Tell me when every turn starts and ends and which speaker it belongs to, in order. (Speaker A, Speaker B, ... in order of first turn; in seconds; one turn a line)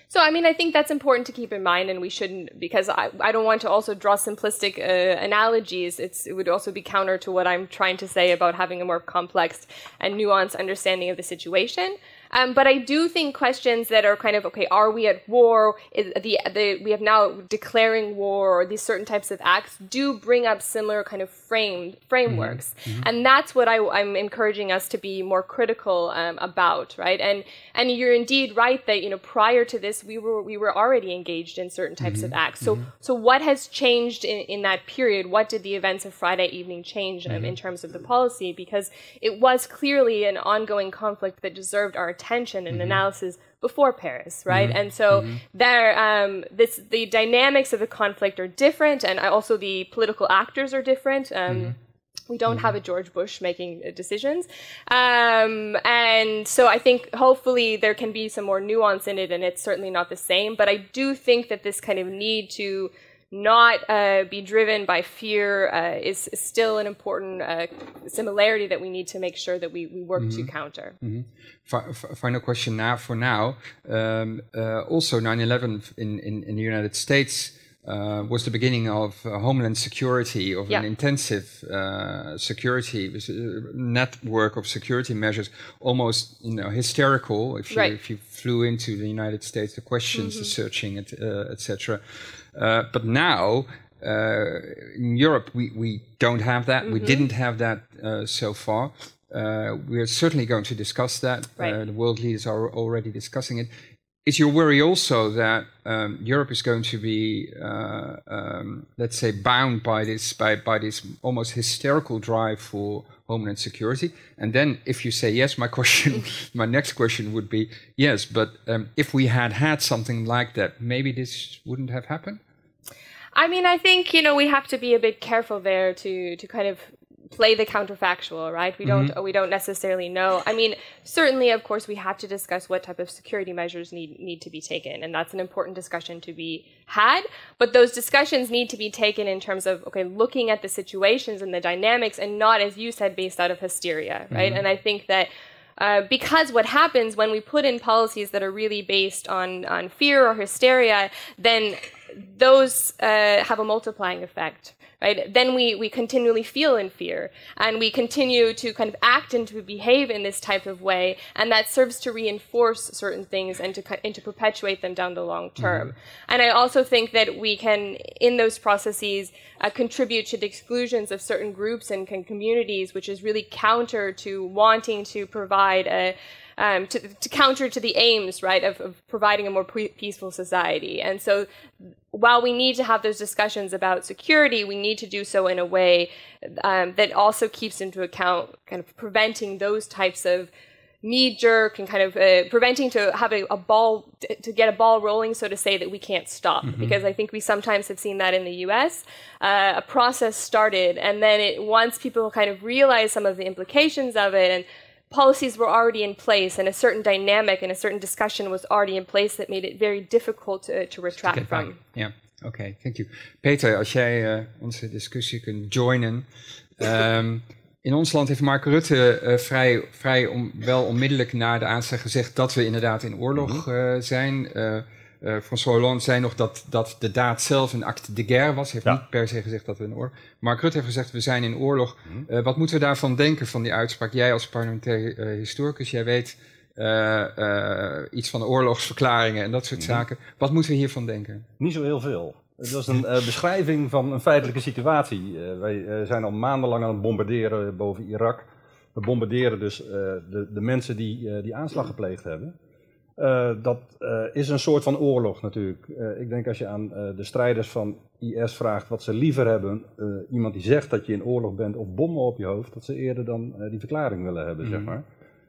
Speaker A: 0.1-51.8
Speaker B: 22.3-23.1
Speaker B: 32.0-32.9
Speaker B: 37.3-37.5
Speaker B: 42.7-43.0
Speaker B: 44.5-45.4
Speaker B: 51.5-51.8
Speaker A: 52.3-71.0
Speaker B: 52.5-52.7
Speaker B: 70.2-70.5
Speaker B: 71.0-92.0
Speaker A: 90.1-90.5
Speaker B: 92.5-103.7
Speaker A: 96.8-97.2
Speaker B: 104.2-122.4
Speaker A: 123.3-181.5
Speaker B: 128.8-129.1
Speaker B: 144.3-144.6
Speaker B: 165.6-165.9
Speaker A: 182.1-190.5
Speaker A: 191.0-211.8
Speaker B: 196.6-196.9
Speaker B: 211.2-216.3
Speaker B: 216.8-241.5
Speaker C: 223.3-223.6
Speaker C: 241.6-252.5
Speaker C: 253.2-265.0
Speaker B: 264.6-264.9